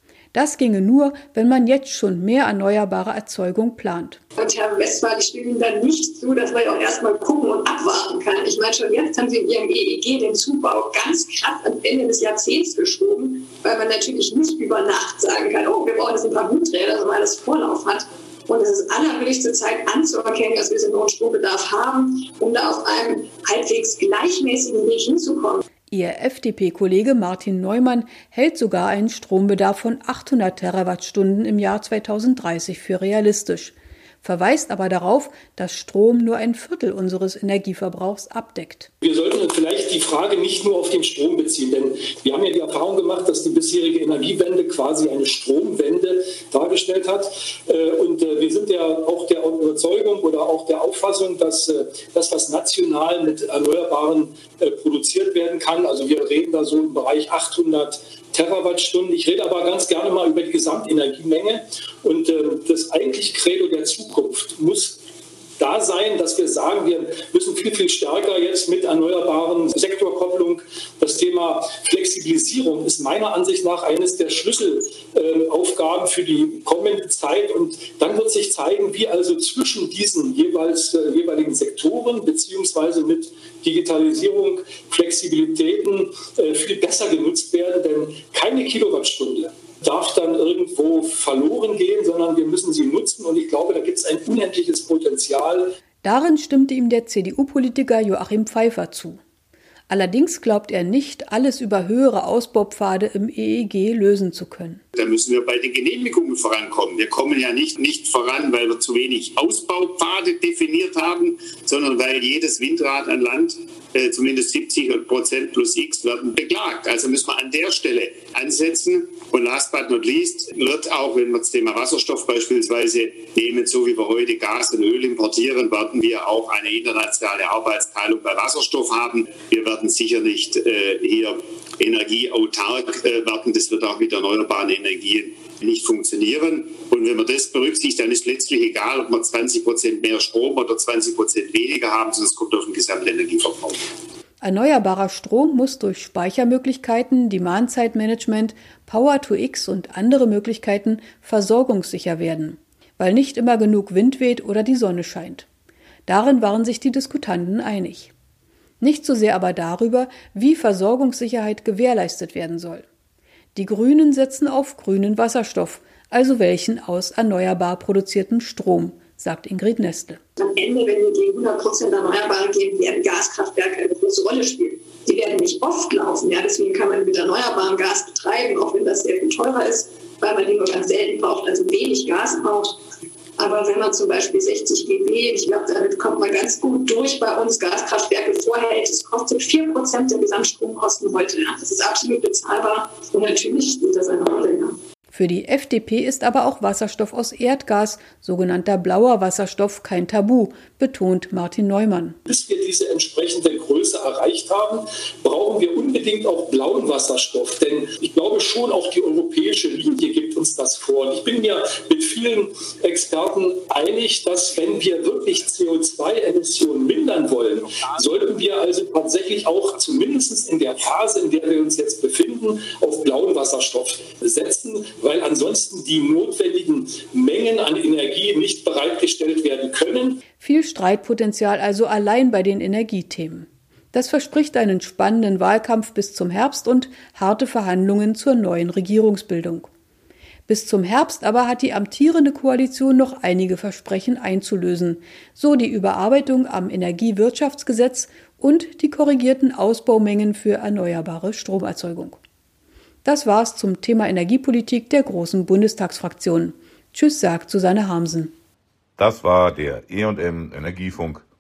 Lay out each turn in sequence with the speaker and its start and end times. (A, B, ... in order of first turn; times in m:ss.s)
0:00.3-0:04.2 A
0:04.4-0:25.6 B
0:25.9-0:38.9 A
0:39.0-1:05.0 C
1:05.6-1:35.8 C
1:36.0-1:39.2 A
1:39.9-1:44.8 A
1:45.0-2:23.8 D
2:24.4-2:35.5 A
2:36.1-2:38.1 A
2:38.8-2:42.9 A
2:43.6-2:50.2 A
2:50.4-3:02.8 B
3:03.4-3:14.8 B
3:15.1-3:22.2 A
3:22.3-3:50.2 C
3:50.4-3:59.7 A
4:00.5-4:12.2 A
4:13.0-4:18.3 A
4:19.0-4:21.2 E